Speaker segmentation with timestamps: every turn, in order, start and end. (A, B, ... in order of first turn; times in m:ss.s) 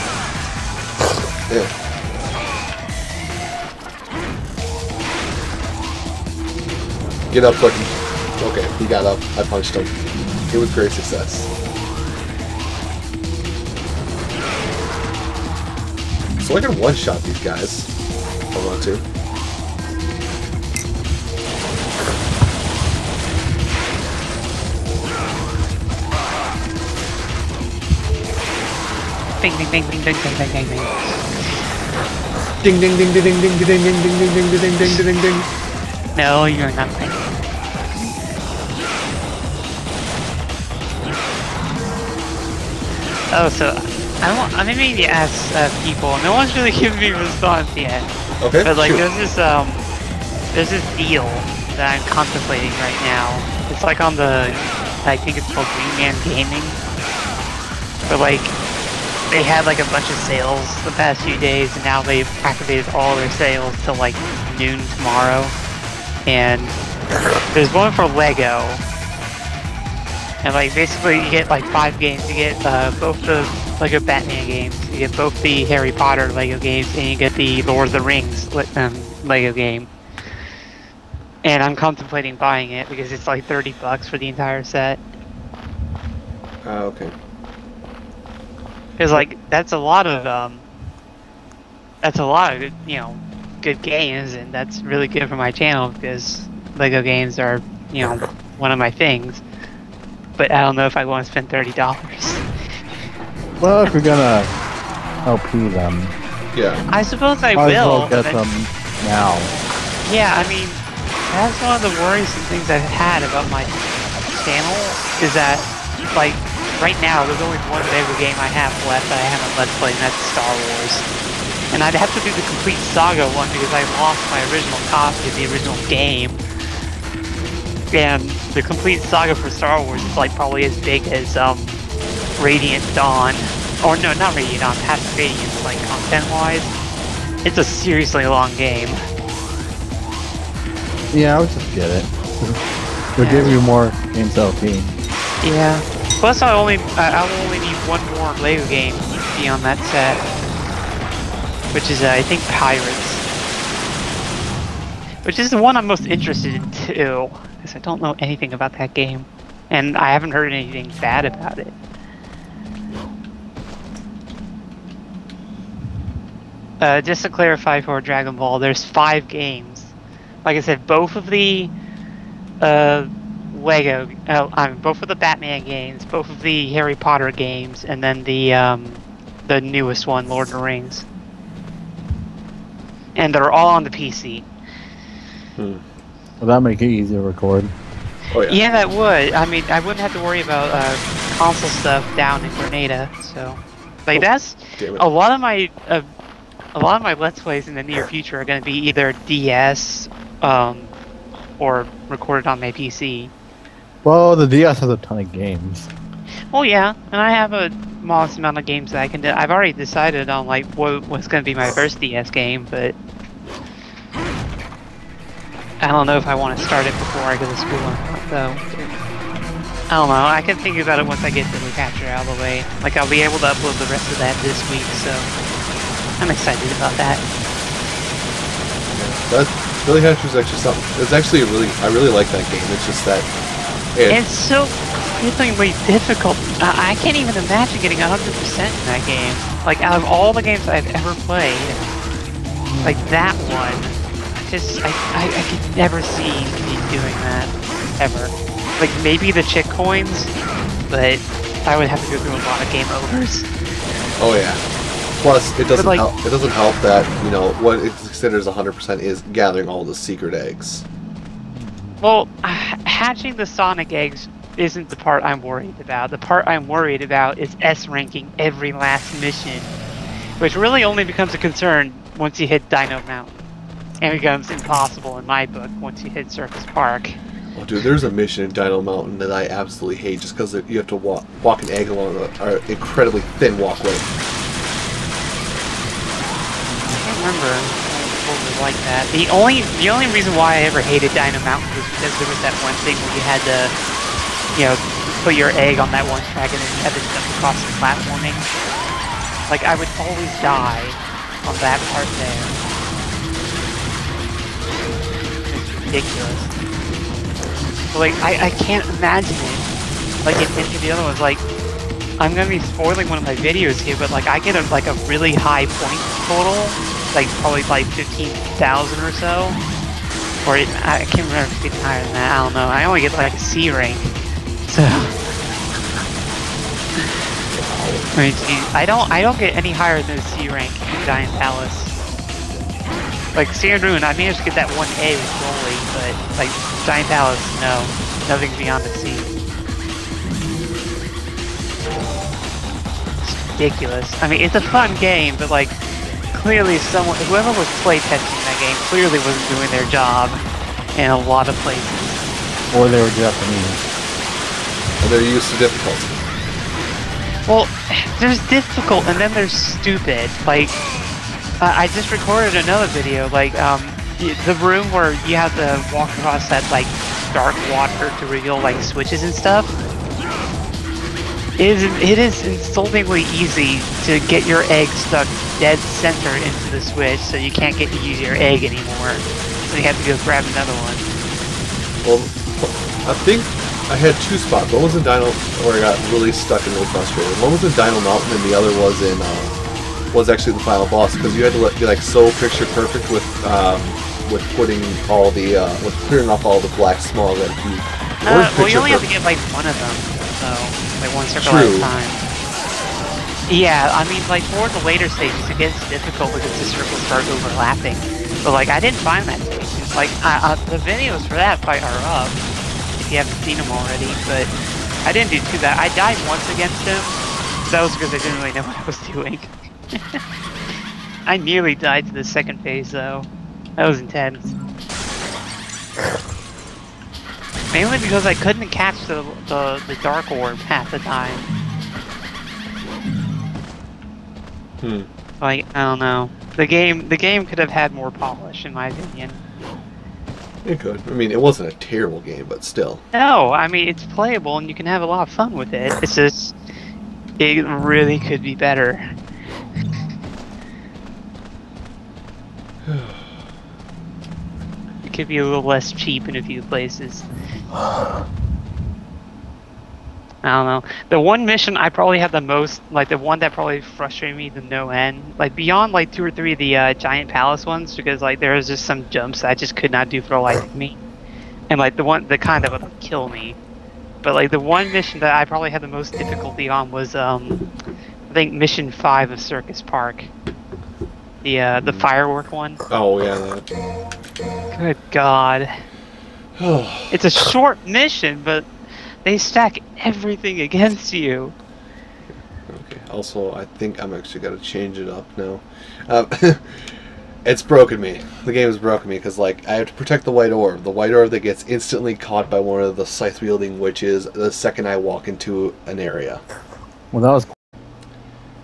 0:07.3-0:09.9 A
0:10.5-0:11.5 A
0:16.4-0:17.9 A
0:18.5-0:19.0 A
0:29.4-0:31.1 B
0:32.6-0:35.5 A
0:36.1-0:37.3 B
0:43.3-0:48.1 B
0:48.4-0:49.0 A
0:48.6-0:49.9 B
0:50.5-0:56.8 B
0:58.1-0:58.6 B
0:59.3-1:05.6 B
1:06.2-1:06.8 B
1:07.5-1:08.8 B
1:10.4-1:19.9 B
1:21.4-1:25.0 B
1:26.6-1:27.1 A
1:29.0-1:30.6 B
1:32.0-1:39.4 B
1:40.4-1:42.4 B
1:43.6-1:44.5 C
1:45.2-1:46.1 C
1:46.5-1:46.8 A
1:46.9-1:48.4 B
1:47.5-1:49.5 C
1:50.0-2:01.0 B
2:01.7-2:06.4 B
2:07.9-2:11.8 B
2:12.4-2:16.7 B
2:17.4-2:19.0 B
2:21.1-2:22.6 C
2:23.1-2:25.0 C
2:23.2-2:23.6 B
2:25.4-2:30.2 B
2:31.7-2:33.2 B
2:35.2-2:41.7 B
2:46.8-2:51.7 B
2:52.6-3:01.1 B
3:03.1-3:04.5 B
3:05.6-3:05.8 A
3:06.4-3:07.7 C
3:08.3-3:08.6 A
3:08.5-3:16.1 B
3:14.8-3:15.0 A
3:16.7-3:20.9 B
3:21.6-3:23.3 B
3:24.0-3:25.9 C
3:26.5-3:33.0 B
3:35.8-3:39.0 B
3:39.9-3:45.3 B
3:46.2-3:47.2 B
3:48.9-3:53.3 A
3:54.0-3:54.2 A
3:54.1-4:01.8 B
4:02.4-4:03.1 C
4:02.8-4:10.3 B
4:10.9-4:13.5 B
4:14.2-4:14.6 A
4:15.2-4:20.8 A
4:15.8-4:16.0 B
4:21.6-4:22.0 C
4:22.0-4:29.8 B
4:30.4-4:33.4 B
4:34.0-4:37.2 B
4:37.5-4:44.1 A
4:46.8-4:53.7 B
4:54.5-4:58.5 B
4:59.5-5:02.6 B
5:05.5-5:06.5 B
5:07.9-5:09.7 B
5:10.2-5:11.4 B
5:12.2-5:19.6 B
5:20.4-5:24.1 B
5:24.6-5:25.2 B
5:27.5-5:28.1 A
5:28.1-5:32.0 B
5:33.3-5:39.3 B
5:43.2-5:45.8 B
5:46.3-5:50.4 B
5:51.0-5:52.2 B
5:52.7-5:53.8 C
5:55.0-5:56.2 A
5:57.5-6:00.8 B
6:01.6-6:09.8 B
6:11.6-6:21.0 B
6:22.0-6:29.5 A
6:30.1-6:39.0 A
6:38.2-6:42.2 B
6:41.4-6:41.9 A
6:43.5-6:52.4 B
6:53.0-6:54.5 B
6:55.0-7:00.2 B
7:01.2-7:04.5 B
7:07.7-7:11.5 B
7:14.8-7:15.1 A
7:15.4-7:19.4 B
7:20.6-7:23.0 A
7:23.1-7:26.6 B
7:27.4-7:29.1 B
7:32.9-7:33.3 A
7:35.0-7:37.3 B
7:40.4-7:51.0 B
7:51.7-7:53.6 B
7:54.2-7:57.6 B
7:58.3-8:00.3 B
8:01.4-8:02.8 B
8:02.9-8:03.6 A
8:04.7-8:05.7 B
8:06.6-8:07.2 A
8:07.1-8:08.7 B
8:09.2-8:11.5 B
8:12.7-8:16.9 A
8:17.4-8:26.4 A
8:27.1-8:27.5 C